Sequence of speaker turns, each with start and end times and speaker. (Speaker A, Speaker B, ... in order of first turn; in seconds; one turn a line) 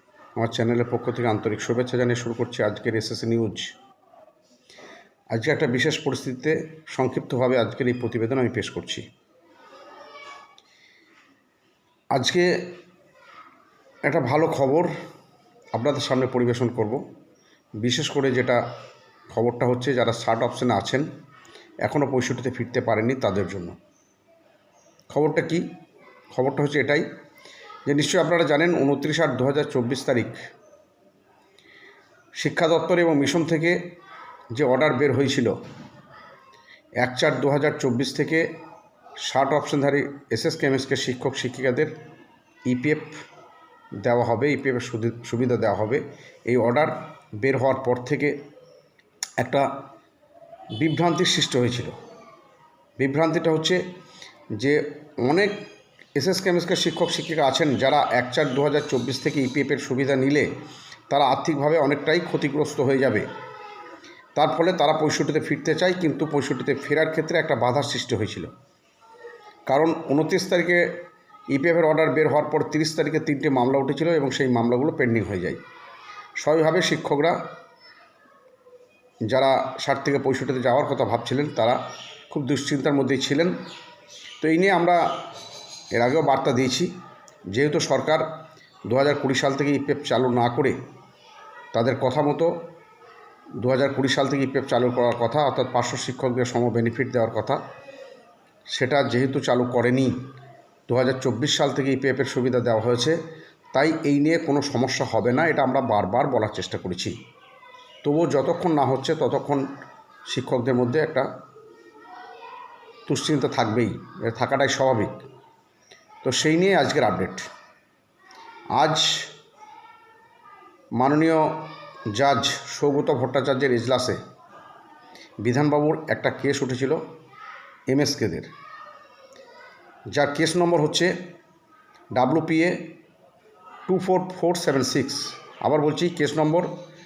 Speaker A: 0.4-3.7
Speaker A: 5.3-9.0
Speaker A: 12.1-12.7
Speaker A: 14.1-14.9
Speaker A: 15.7-17.0
Speaker A: 17.8-18.6
Speaker A: 19.3-21.1
Speaker A: 21.8-23.7
Speaker A: 25.1-25.6
Speaker A: 26.3-27.1
Speaker A: 27.9-30.4
Speaker A: 32.4-33.8
Speaker A: 34.5-35.5
Speaker A: 37.0-38.5
Speaker A: 39.2-41.9
Speaker A: 42.6-43.1
Speaker A: 44.0-48.4
Speaker A: 49.4-49.7
Speaker A: 50.8-51.9
Speaker A: 53.0-53.8
Speaker A: 54.6-55.6
Speaker A: 56.1-60.5
Speaker A: 61.1-63.2
Speaker A: 64.3-68.5
Speaker A: 69.7-70.9
Speaker A: 71.5-75.6
Speaker A: 76.4-77.4
Speaker A: 79.3-81.8
Speaker A: 82.3-83.5
Speaker A: 84.4-85.0
Speaker A: 85.9-86.9
Speaker A: 87.5-88.3
Speaker A: 88.9-90.8
Speaker A: 91.7-92.5
Speaker A: 93.6-97.6
Speaker A: 98.7-100.2
Speaker A: 100.9-103.2
Speaker A: 103.7-107.2
Speaker A: 108.0-109.6
Speaker A: 110.3-111.3
Speaker A: 113.1-115.1
Speaker A: 116.2-117.5
Speaker A: 118.8-119.3
Speaker A: 121.0-124.2
Speaker A: 125.4-127.0
Speaker A: 127.9-128.5
Speaker A: 130.1-131.1
Speaker A: 132.2-132.8
Speaker A: 133.9-136.7